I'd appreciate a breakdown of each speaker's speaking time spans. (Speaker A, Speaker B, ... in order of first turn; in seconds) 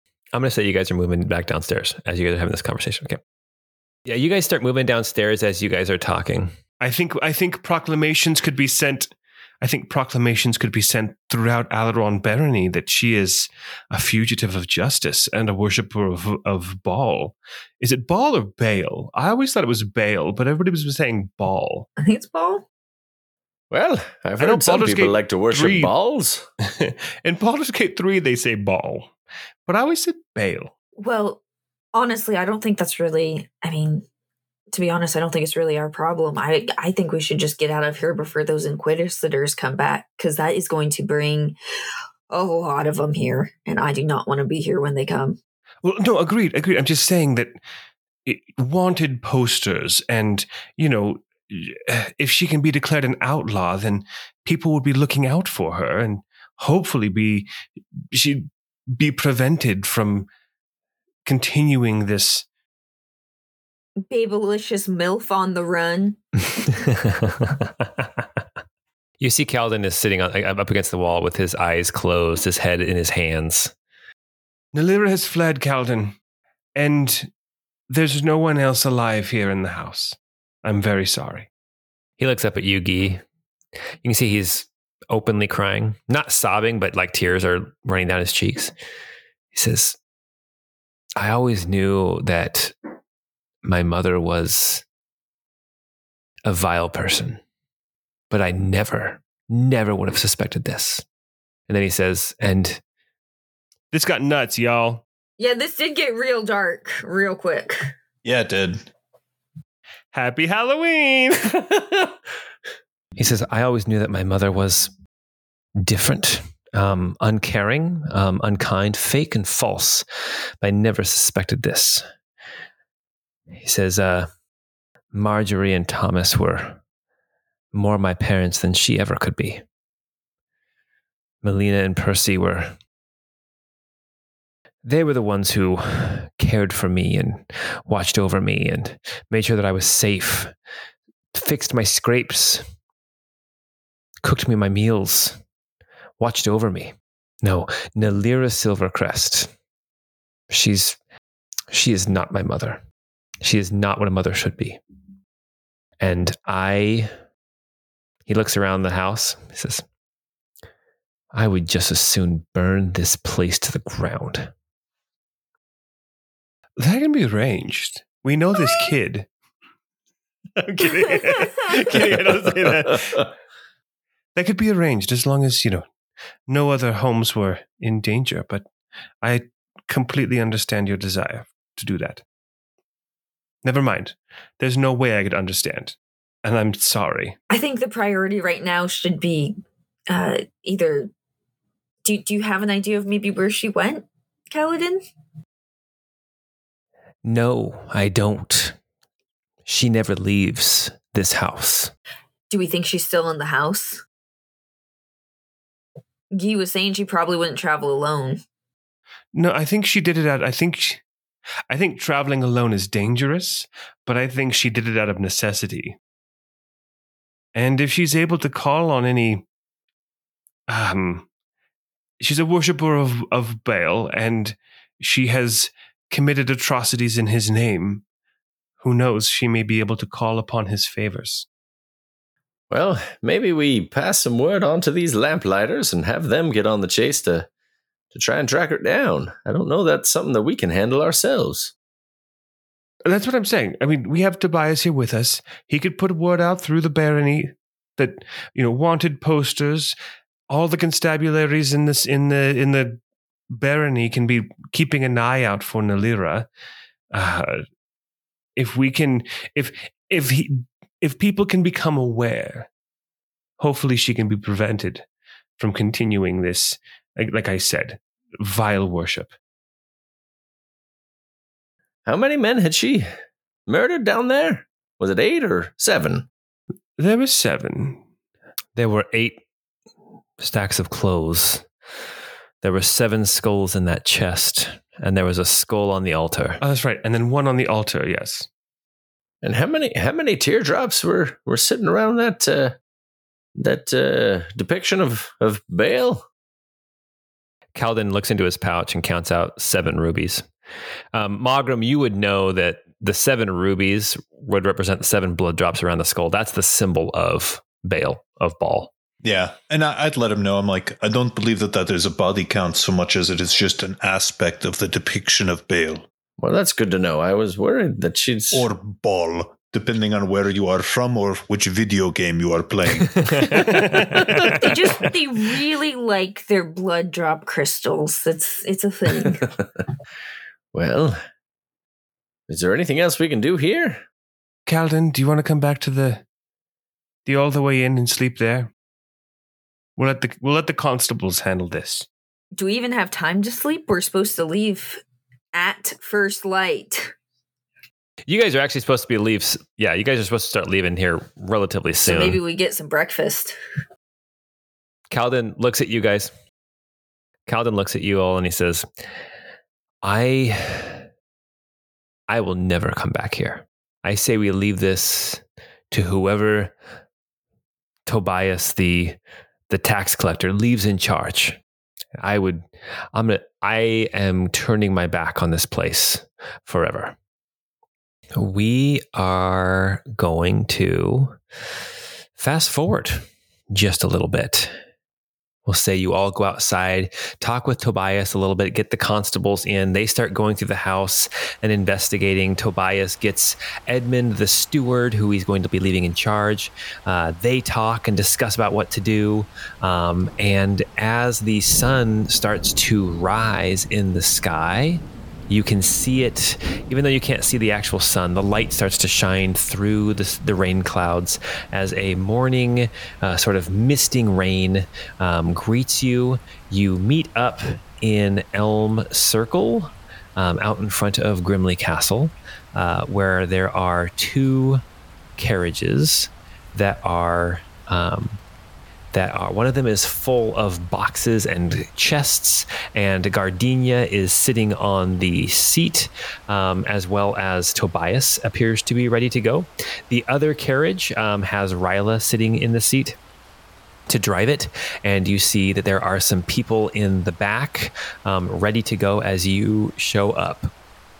Speaker A: 0.3-3.2, 4.1-6.5, 66.7-67.7, 69.2-73.7, 82.2-83.2, 84.0-88.7, 89.5-90.0, 91.2-92.8, 93.6-94.8, 96.5-97.4, 98.3-101.0, 101.7-102.8, 113.2-114.9, 115.8-120.0, 120.6-122.0, 123.6-124.3, 125.1-126.8, 127.7-129.6, 131.4-132.8, 134.8-140.5, 141.3-142.7, 144.2-145.4, 146.2-149.5, 150.5-151.0, 151.7-152.8, 153.4-154.8, 156.0-157.2, 158.3-159.8, 161.3-164.5, 197.2-198.8, 199.7-201.9, 278.8-279.4, 280.4-281.7, 282.6-286.6, 297.8-300.5, 301.1-308.9, 323.1-324.8, 348.3-352.4, 355.1-356.3, 357.5-358.9, 360.0-361.0, 362.3-366.7, 368.1-369.2, 369.7-371.6, 372.2-377.2, 378.4-381.4, 382.4-384.8, 385.7-424.8, 425.4-428.4, 429.1-443.2, 444.1-450.7
Speaker B: 6.8-21.9, 24.4-25.9, 26.6-29.1, 29.7-30.7, 45.8-47.5, 48.3-57.5, 58.1-60.3, 61.3-62.5, 74.7-76.2, 76.8-77.3, 77.9-81.5, 103.9-105.0, 110.1-111.8, 166.8-169.3, 170.6-173.3, 174.3-175.8, 176.5-178.6, 179.2-182.2, 183.6-187.4, 209.3-211.0, 211.7-216.0, 217.5-219.4, 220.7-221.2, 222.2-228.0, 228.8-231.5, 243.1-249.9, 250.5-253.0, 253.5-256.5, 257.1-257.6, 258.6-262.7, 263.6-265.0, 265.6-269.3, 277.0-278.0, 286.6-288.5, 334.7-336.2, 337.3-338.7, 340.0-342.1
Speaker C: 22.0-22.6, 31.0-31.4, 31.9-34.1, 34.7-41.6, 42.3-45.4, 64.1-66.2, 105.4-107.9, 187.5-189.6, 190.1-191.1, 192.0-195.0, 202.5-204.0, 206.3-208.4, 324.5-329.5, 342.6-345.0, 345.5-347.1, 352.1-353.6
Speaker D: 23.7-26.5, 232.7-237.5, 238.1-241.7, 272.1-273.1, 273.7-276.3, 289.4-292.8, 293.6-296.2, 316.4-318.7, 330.7-331.2, 332.5-334.0
Speaker E: 108.2-108.9, 309.2-316.1, 318.5-323.5